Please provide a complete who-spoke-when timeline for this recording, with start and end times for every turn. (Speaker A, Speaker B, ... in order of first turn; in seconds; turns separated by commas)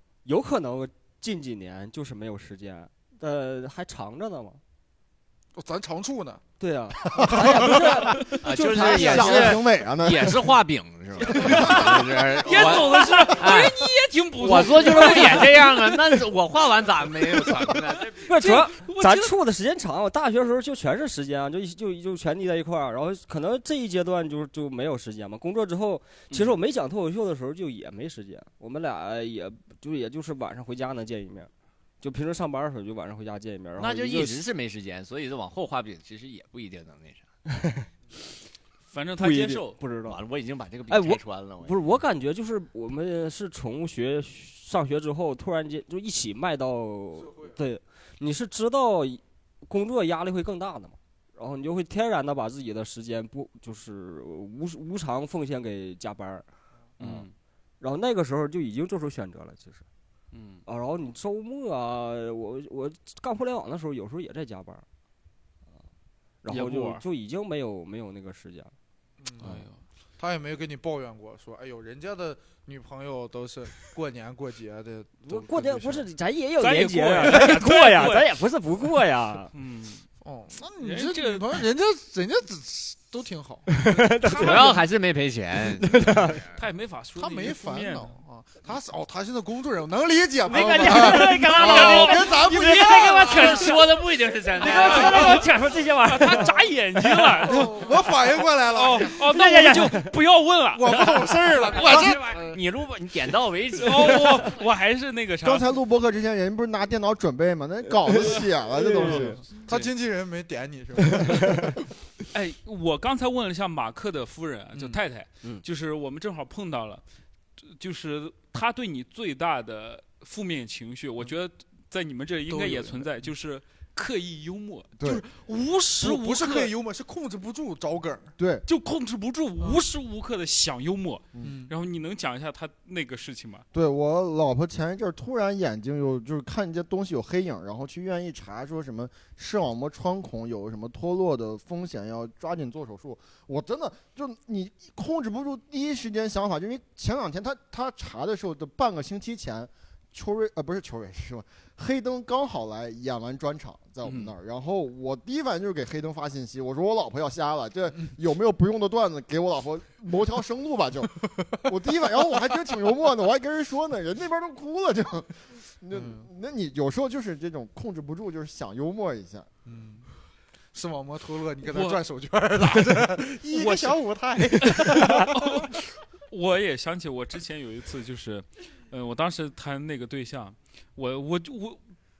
Speaker A: 0.2-4.6, Speaker B: 5.6-6.4, Speaker A: 6.6-9.6, Speaker B: 7.1-8.4, Speaker C: 8.2-18.3, Speaker D: 8.6-10.5, Speaker A: 11.3-11.9, Speaker E: 11.4-16.0, Speaker A: 14.8-15.7, Speaker A: 18.3-31.5, Speaker E: 18.4-19.4, Speaker A: 32.0-34.4, Speaker C: 33.8-37.3, Speaker A: 37.5-37.9, Speaker E: 38.9-39.8, Speaker A: 39.2-40.2, Speaker C: 40.0-42.0, Speaker A: 40.9-56.5, Speaker A: 57.0-57.3, Speaker E: 57.0-57.3, Speaker A: 57.8-59.8, Speaker E: 60.3-60.6, Speaker A: 60.7-64.8, Speaker A: 66.4-68.7, Speaker E: 66.5-67.0, Speaker B: 69.2-69.6, Speaker E: 69.4-69.8, Speaker B: 70.2-76.1, Speaker A: 75.2-79.5, Speaker E: 76.6-78.4, Speaker E: 79.5-80.1, Speaker B: 80.2-84.1, Speaker E: 80.8-81.6, Speaker A: 83.7-84.8, Speaker E: 84.2-84.8, Speaker C: 84.3-86.4, Speaker A: 85.7-86.5, Speaker E: 86.5-88.2, Speaker B: 87.2-93.7, Speaker A: 90.5-93.5, Speaker E: 90.5-94.0, Speaker C: 93.2-95.4, Speaker E: 94.5-97.9, Speaker A: 94.6-96.6, Speaker B: 94.6-95.5, Speaker B: 97.4-99.2, Speaker E: 98.7-101.8, Speaker A: 99.2-100.2, Speaker B: 100.7-102.6, Speaker C: 101.7-104.6, Speaker E: 103.8-105.7, Speaker D: 105.4-109.4, Speaker A: 107.9-109.4, Speaker B: 109.0-111.7, Speaker A: 111.2-111.7, Speaker E: 112.3-117.0, Speaker B: 114.7-115.0, Speaker E: 117.6-126.7, Speaker B: 122.5-123.1, Speaker D: 125.0-125.2, Speaker B: 126.0-128.3, Speaker D: 128.4-128.7, Speaker E: 128.7-133.7, Speaker B: 131.4-131.7, Speaker D: 133.7-169.5, Speaker E: 154.0-154.3, Speaker B: 165.9-166.3, Speaker B: 169.7-170.1, Speaker B: 170.7-175.7, Speaker E: 171.7-172.0, Speaker D: 173.5-174.8, Speaker E: 174.6-181.8